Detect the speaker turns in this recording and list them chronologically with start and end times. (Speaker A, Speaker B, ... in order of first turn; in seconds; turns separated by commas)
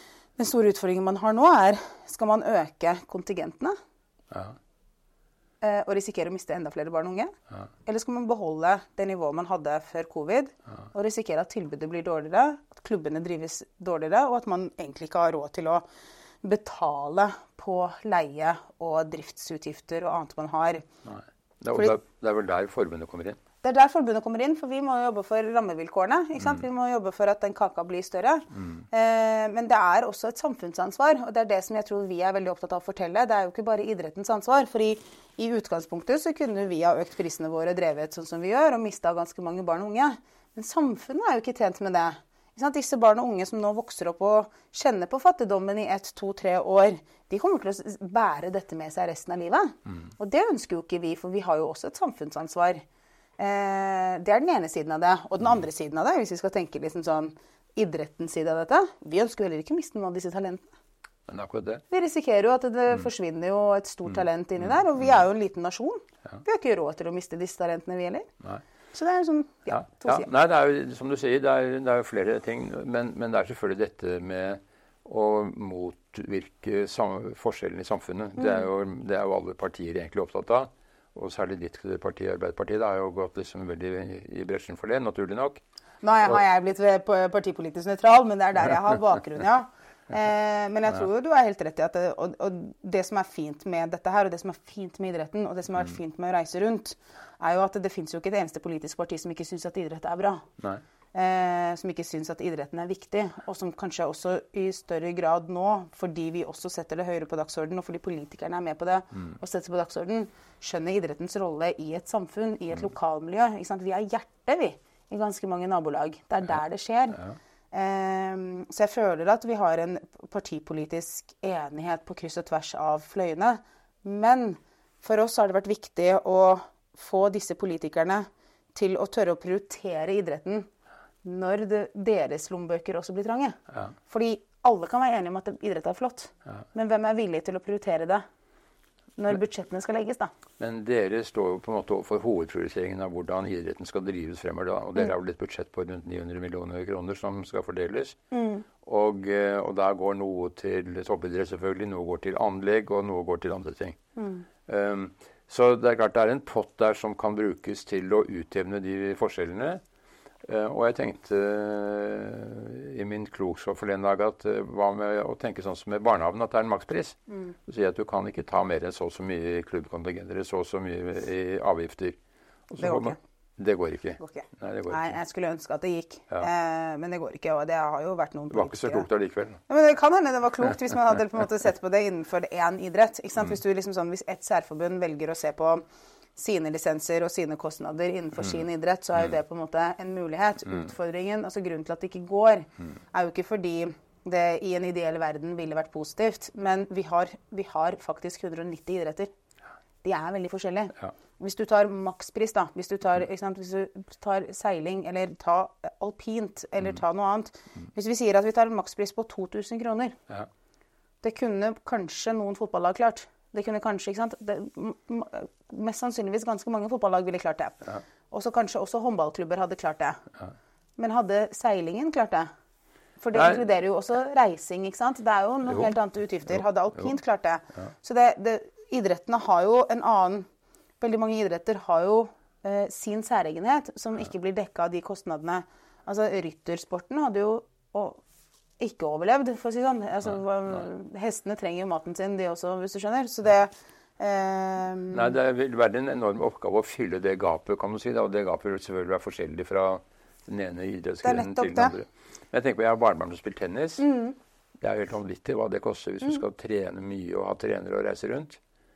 Speaker A: 0.4-3.7, Speaker B: 4.3-4.5, Speaker A: 5.6-15.8, Speaker A: 16.4-20.8, Speaker B: 21.0-23.4, Speaker A: 23.6-52.8, Speaker A: 53.4-60.7, Speaker B: 61.3-61.8, Speaker A: 61.9-68.3, Speaker A: 68.9-70.3, Speaker B: 69.7-85.6, Speaker A: 86.0-100.5, Speaker A: 101.1-130.7, Speaker A: 131.2-138.2, Speaker A: 139.2-140.3, Speaker B: 140.6-148.2, Speaker A: 148.3-148.6, Speaker B: 148.8-154.0, Speaker A: 154.2-154.4, Speaker B: 154.7-159.8, Speaker B: 160.4-172.2, Speaker B: 172.7-175.1, Speaker A: 172.8-173.2, Speaker A: 174.2-179.1, Speaker B: 178.5-179.6, Speaker A: 179.7-185.8, Speaker A: 186.3-199.3, Speaker A: 200.0-210.2, Speaker A: 211.2-220.2, Speaker A: 221.0-222.5, Speaker A: 223.2-230.5, Speaker B: 223.3-223.6, Speaker A: 231.0-238.2, Speaker A: 238.8-245.3, Speaker B: 245.1-254.1, Speaker A: 251.2-251.9, Speaker A: 254.0-254.3, Speaker B: 254.8-258.6